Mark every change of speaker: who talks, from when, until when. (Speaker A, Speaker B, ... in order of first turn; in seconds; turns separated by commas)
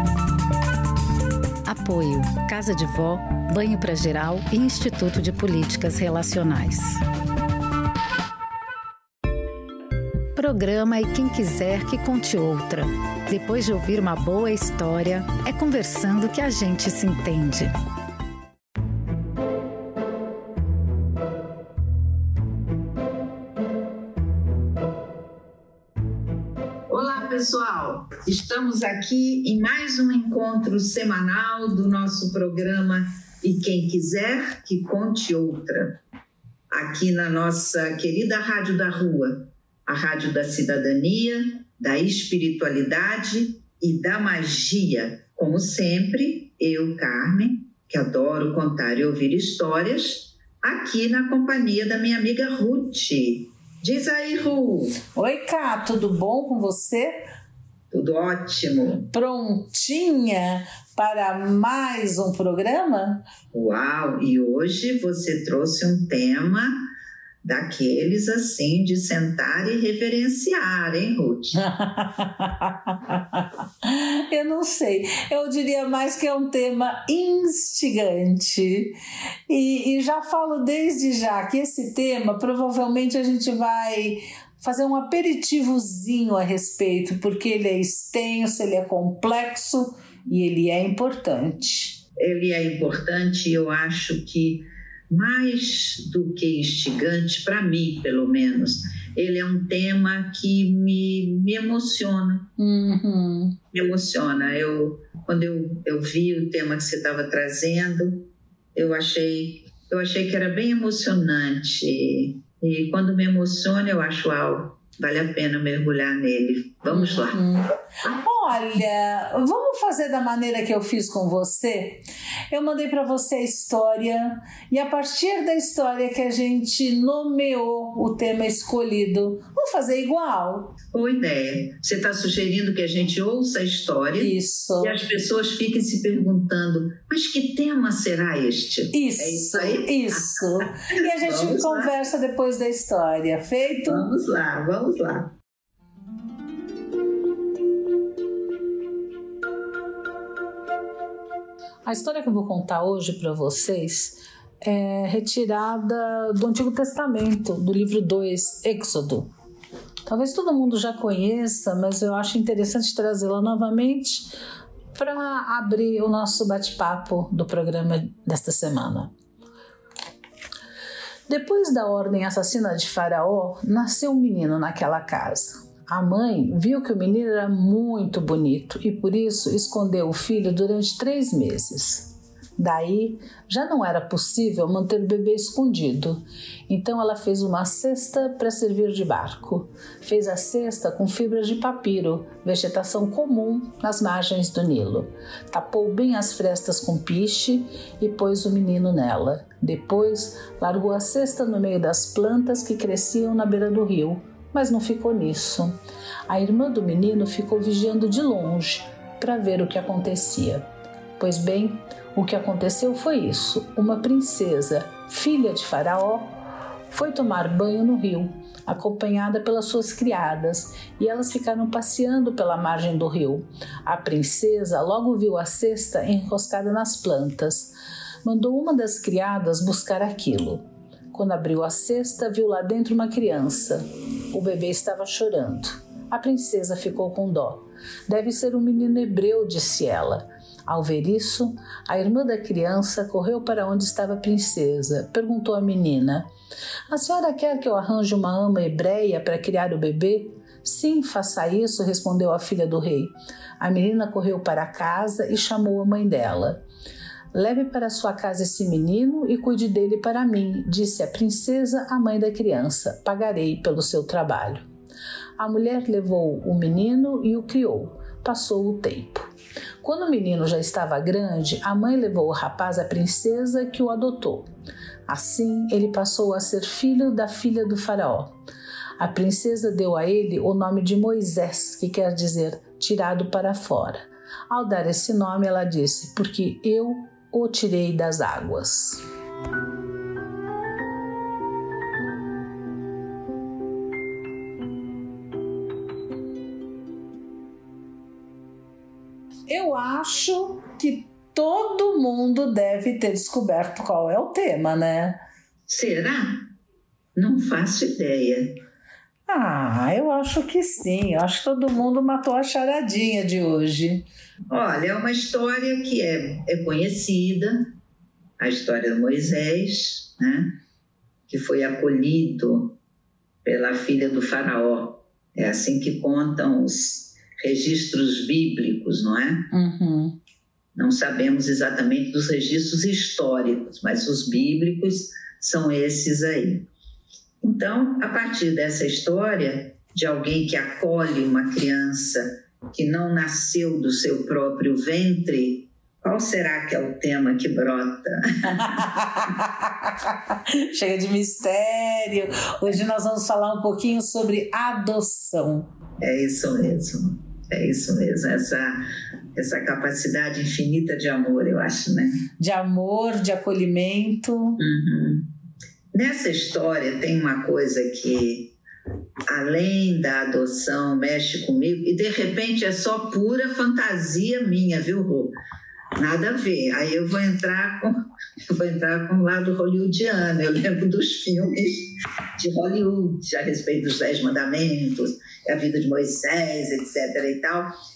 Speaker A: 1.6-7.0, Speaker A: 10.4-17.7, Speaker B: 26.9-36.0, Speaker B: 36.7-55.0, Speaker C: 55.1-57.2, Speaker B: 57.9-59.1, Speaker C: 59.1-63.2, Speaker B: 63.5-66.8, Speaker B: 67.4-71.6, Speaker C: 71.5-79.0, Speaker C: 79.5-92.0, Speaker B: 92.2-102.5, Speaker C: 102.6-103.6, Speaker B: 103.7-117.5, Speaker C: 116.9-130.7, Speaker B: 130.9-142.1, Speaker C: 134.2-135.0, Speaker C: 138.9-144.1, Speaker B: 143.9-145.3, Speaker C: 151.8-159.3, Speaker C: 160.1-164.3, Speaker C: 164.9-169.1, Speaker C: 171.3-205.8, Speaker C: 206.3-210.7, Speaker C: 211.2-216.4, Speaker C: 216.9-246.3, Speaker C: 246.9-256.6, Speaker C: 257.3-264.7, Speaker C: 265.4-269.3, Speaker C: 269.8-274.5, Speaker C: 275.1-278.4, Speaker C: 279.0-289.0, Speaker C: 299.5-305.2, Speaker B: 305.7-306.5, Speaker B: 307.1-308.6, Speaker C: 309.3-314.1, Speaker B: 314.5-317.7, Speaker B: 318.4-320.6, Speaker B: 321.3-322.8, Speaker B: 323.4-329.5, Speaker C: 329.5-330.2, Speaker B: 330.8-336.7, Speaker B: 337.4-348.7, Speaker C: 348.4-355.7, Speaker B: 356.0-358.8, Speaker B: 359.4-362.3, Speaker C: 362.4-364.6, Speaker B: 364.6-365.3, Speaker B: 365.9-368.5, Speaker B: 369.3-375.4, Speaker B: 376.0-387.8